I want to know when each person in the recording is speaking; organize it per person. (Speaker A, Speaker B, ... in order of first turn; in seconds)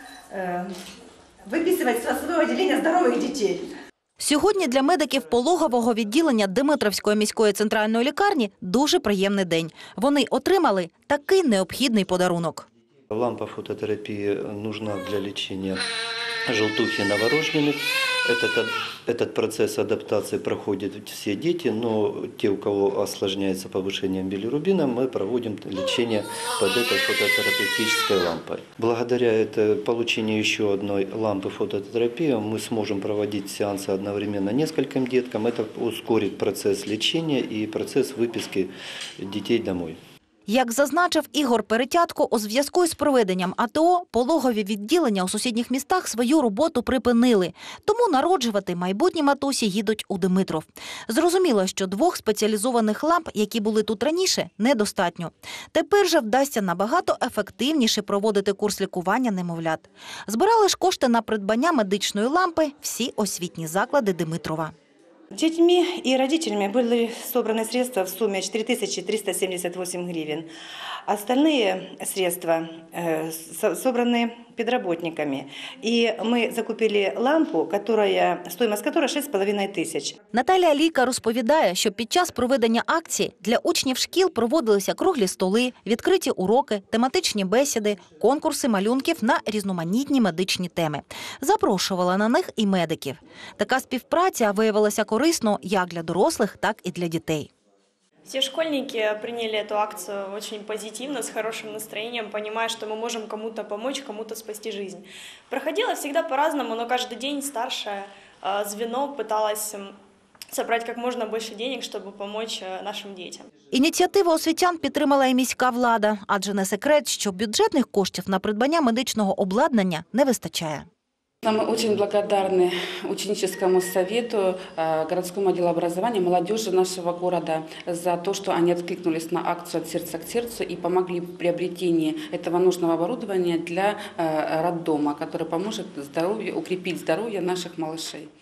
Speaker A: 0.3-0.7, 1.5-3.6, 65.3-70.5, 71.1-80.2
Speaker B: 4.2-12.7, 40.5-64.7, 80.3-97.5, 113.7-120.9
Speaker C: 13.1-15.8, 16.5-40.0
Speaker D: 98.3-109.9, 110.5-113.5
Speaker E: 121.4-138.3